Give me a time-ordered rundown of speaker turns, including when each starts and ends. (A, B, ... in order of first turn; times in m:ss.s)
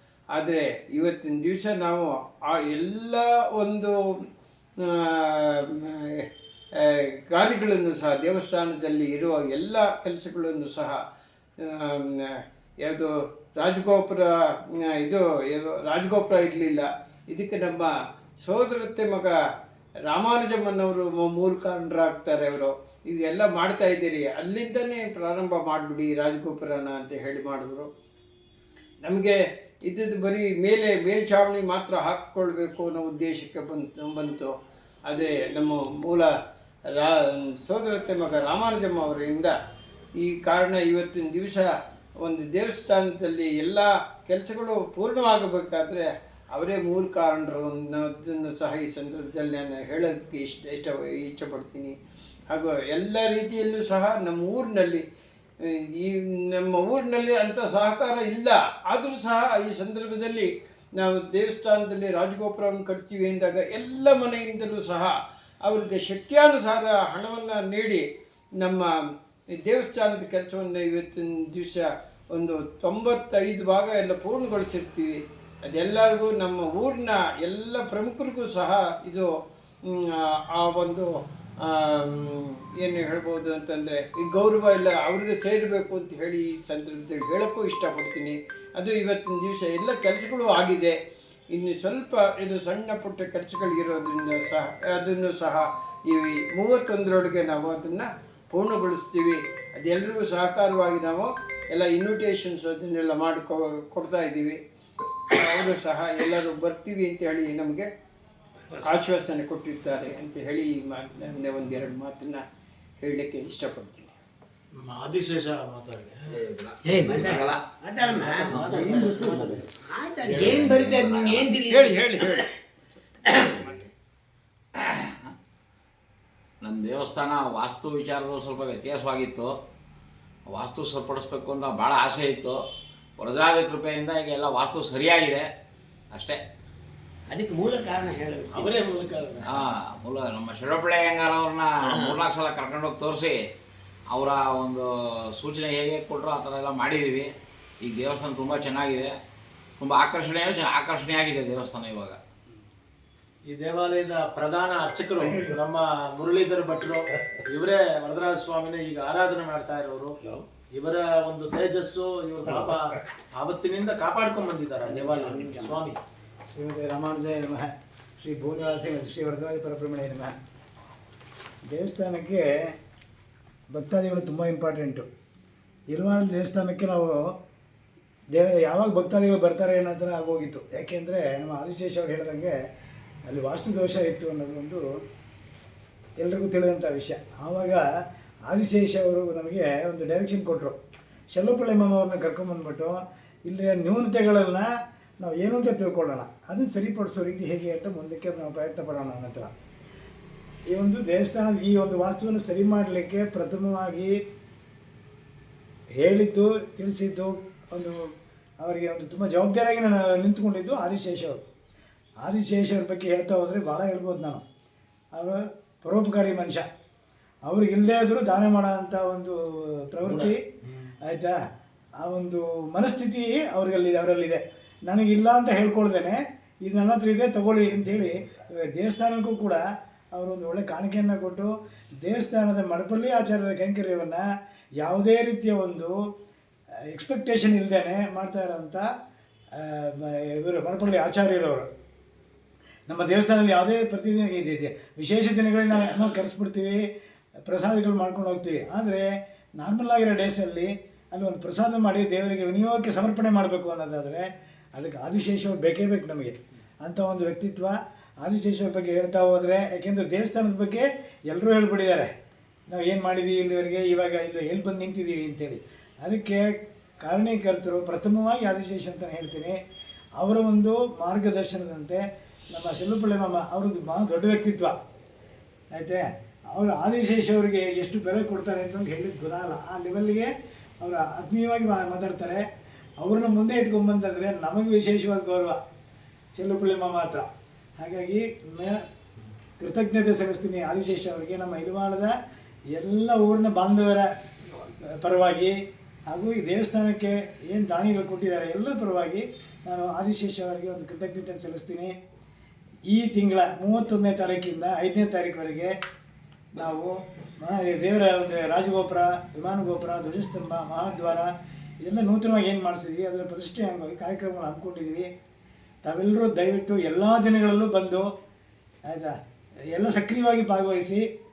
0:00.3-0:03.9 A
0:04.8-0:06.2 A
0:06.8-0:11.0 A
0:11.6-0:14.3 A
0:14.9-0:17.9 A
0:18.4-0:19.3 A
0:20.1-0:27.9 A
0:29.0-0:34.5 A
0:35.1-0:36.3 A
0:36.9-0:39.5 A
0:40.2-0:41.7 A
0:42.2-0:52.0 A
0:52.5-0:55.0 A
0:55.6-1:08.0 A
1:08.6-1:08.9 A
1:09.6-1:19.3 A
1:19.8-1:31.0 A
1:31.5-1:44.6 A
1:45.3-1:47.9 A
1:48.7-1:52.4 A
1:53.0-1:54.1 A
1:54.8-1:56.4 B
1:56.4-1:57.6 C
1:56.8-2:02.5 D
1:58.0-1:59.7 B
1:58.5-1:58.8 C
2:00.2-2:01.5 C
2:01.7-2:02.5 A
2:03.3-2:03.6 D
2:04.8-2:05.3 C
2:06.6-2:09.5 C
2:10.5-2:12.6 C
2:13.2-2:15.5 C
2:16.1-2:16.4 C
2:17.3-2:18.8 D
2:18.5-2:19.5 B
2:19.5-2:23.4 C
2:21.8-2:22.2 D
2:24.1-2:24.8 C
2:25.4-2:27.3 C
2:27.8-2:29.1 C
2:29.8-2:32.2 C
2:33.5-2:40.2 B
2:35.2-2:35.6 D
2:40.7-2:46.0 B
2:42.5-2:42.8 D
2:44.8-2:45.8 D
2:46.6-2:50.3 E
2:51.7-2:52.4 E
2:53.7-2:55.1 E
2:55.9-2:57.4 E
2:58.3-3:02.5 E
3:03.3-3:04.8 E
3:06.2-3:07.8 E
3:08.5-3:10.8 E
3:11.3-3:14.7 E
3:15.2-3:19.5 E
3:20.7-3:24.1 E
3:26.0-3:28.0 E
3:28.6-3:31.4 E
3:32.2-3:34.4 E
3:35.2-3:36.7 E
3:37.5-3:40.4 E
3:40.0-3:40.4 B
3:41.1-3:41.4 E
3:42.0-3:49.6 E
3:50.2-3:51.5 E
3:52.0-3:54.2 E
3:54.8-3:56.0 E
3:57.0-3:58.8 E
3:59.6-4:01.7 E
4:02.9-4:06.8 E
4:07.5-4:09.0 E
4:09.6-4:22.1 E
4:22.7-4:29.6 E
4:30.2-4:34.8 E
4:35.8-4:42.4 E
4:43.0-4:45.6 E
4:46.4-4:47.3 E
4:47.8-4:48.8 E
4:49.6-4:52.1 E
4:52.8-4:55.6 E
4:56.1-5:02.0 E
5:02.9-5:05.7 E
5:06.6-5:11.3 E
5:11.9-5:15.1 E
5:15.9-5:18.1 E
5:18.9-5:19.2 E
5:19.8-5:21.1 E